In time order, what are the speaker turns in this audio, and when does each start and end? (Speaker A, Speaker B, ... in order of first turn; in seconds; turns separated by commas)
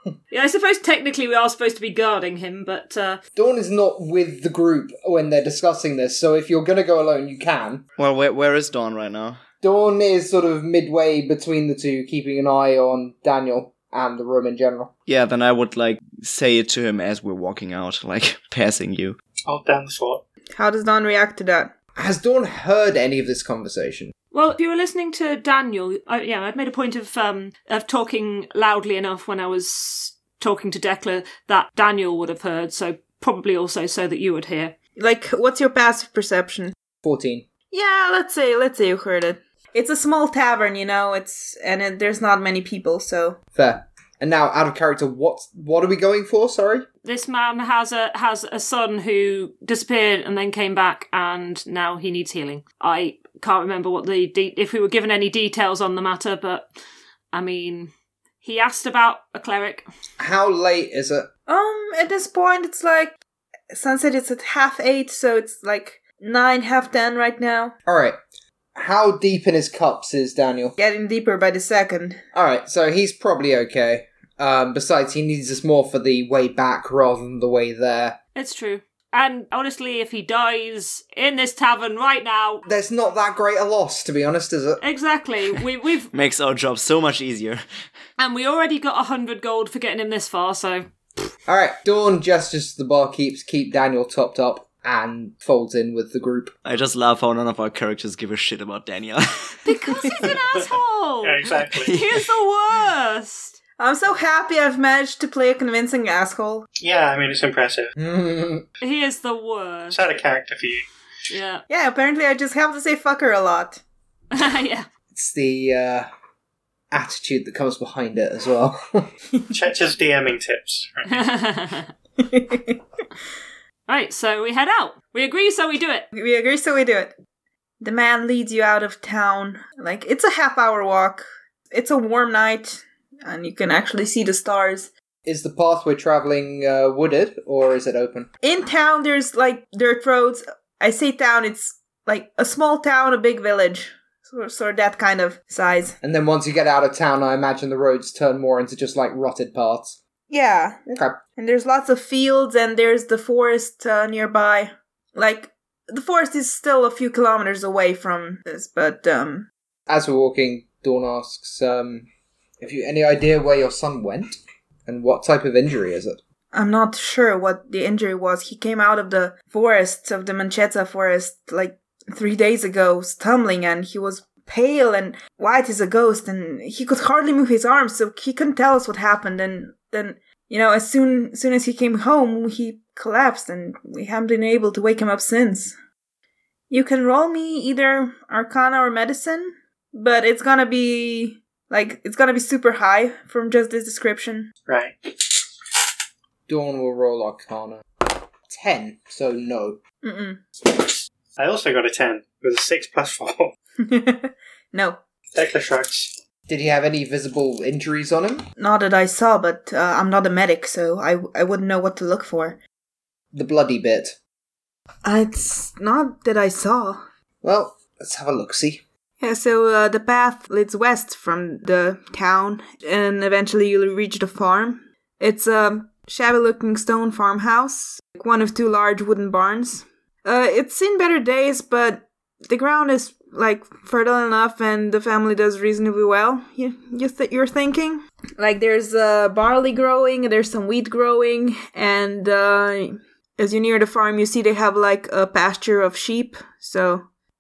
Speaker A: 0.3-3.2, Speaker B: 3.4-7.8, Speaker C: 8.0-9.4, Speaker B: 9.6-14.9, Speaker C: 15.1-19.2, Speaker D: 19.5-20.2, Speaker E: 20.6-21.7, Speaker B: 22.0-24.1, Speaker A: 24.3-34.8, Speaker E: 35.0-36.8, Speaker B: 37.0-37.5, Speaker E: 37.7-43.4, Speaker B: 43.5-46.9, Speaker A: 47.0-56.7, Speaker A: 57.3-57.9, Speaker A: 58.4-59.9, Speaker B: 60.2-61.3, Speaker E: 61.5-63.2, Speaker E: 63.7-67.7, Speaker B: 67.9-68.2, Speaker B: 68.8-70.8, Speaker E: 70.8-72.2, Speaker B: 72.3-78.2, Speaker A: 78.4-82.6, Speaker B: 82.7-84.8, Speaker A: 84.8-86.1, Speaker C: 86.1-87.6, Speaker A: 88.2-91.3, Speaker B: 91.5-96.5, Speaker C: 96.6-100.3, Speaker A: 99.7-103.6, Speaker D: 100.3-102.0, Speaker C: 101.7-102.2, Speaker E: 103.8-106.7, Speaker D: 106.8-107.9, Speaker B: 108.0-108.7, Speaker A: 108.8-110.0, Speaker D: 109.9-110.9, Speaker A: 111.3-111.7, Speaker E: 111.7-113.8, Speaker A: 114.3-114.9, Speaker B: 115.1-116.1, Speaker B: 116.9-119.1, Speaker D: 119.5-121.3, Speaker A: 121.1-121.9, Speaker E: 122.2-122.8, Speaker A: 123.9-126.1, Speaker E: 126.1-127.1, Speaker E: 127.8-134.9, Speaker B: 135.3-138.3, Speaker E: 138.4-146.0, Speaker B: 146.0-150.0, Speaker E: 150.3-150.8, Speaker B: 150.9-151.2, Speaker E: 151.4-159.5, Speaker B: 159.9-162.1, Speaker B: 162.6-166.2, Speaker E: 166.5-185.8, Speaker E: 186.7-194.5, Speaker D: 194.7-195.2, Speaker B: 196.5-197.8, Speaker B: 198.5-199.8, Speaker E: 200.0-200.4, Speaker D: 201.4-203.5, Speaker E: 203.8-205.0, Speaker D: 205.3-206.1, Speaker B: 206.5-208.5, Speaker E: 208.6-212.6, Speaker B: 213.3-214.2, Speaker E: 215.1-217.0, Speaker B: 217.4-218.8, Speaker E: 219.2-247.1